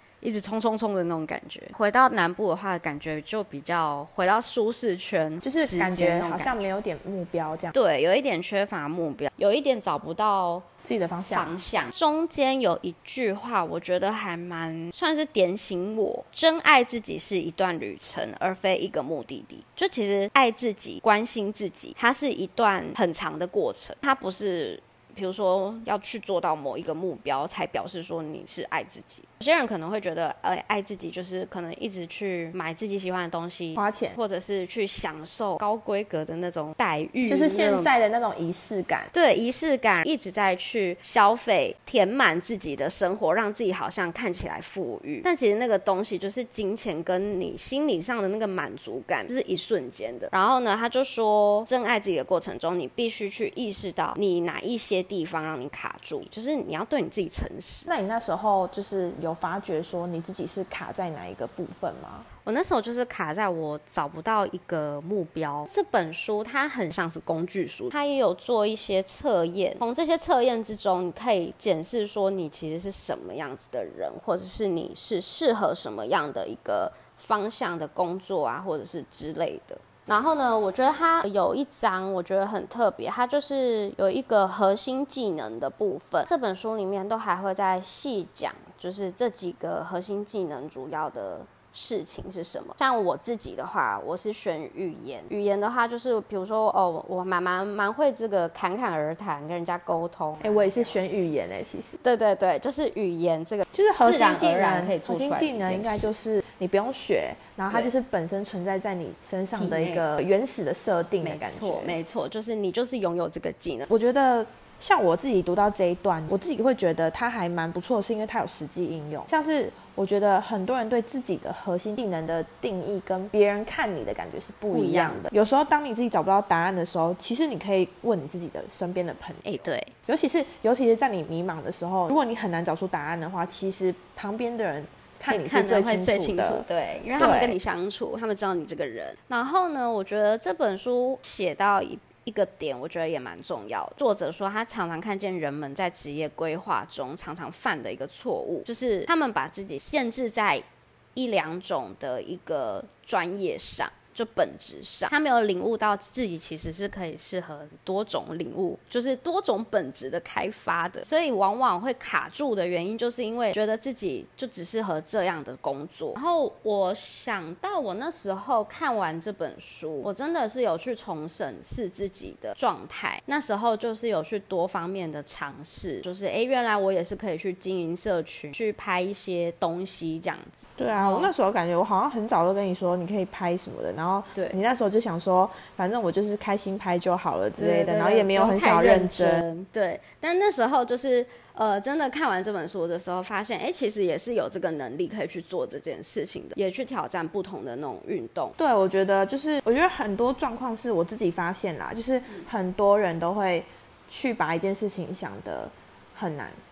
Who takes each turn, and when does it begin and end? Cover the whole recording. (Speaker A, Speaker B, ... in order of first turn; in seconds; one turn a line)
Speaker A: 0.2-6.7
Speaker B: 5.4-7.7
Speaker A: 7.7-10.7
Speaker B: 10.8-11.5
Speaker A: 11.3-37.9
Speaker B: 33.8-34.2
Speaker B: 37.2-39.1
Speaker A: 39.1-57.9
Speaker B: 57.9-62.3
Speaker A: 62.4-101.0
Speaker B: 100.4-102.0
Speaker A: 102.0-106.1
Speaker B: 103.7-112.0
Speaker A: 109.5-110.0
Speaker A: 111.2-113.9
Speaker B: 113.9-129.5
Speaker A: 124.7-125.3
Speaker A: 129.4-129.9
Speaker B: 130.1-137.6
Speaker A: 135.2-150.6
Speaker A: 151.2-181.3
Speaker B: 180.8-189.4
Speaker A: 184.3-184.6
Speaker A: 187.6-198.5
Speaker B: 198.6-206.6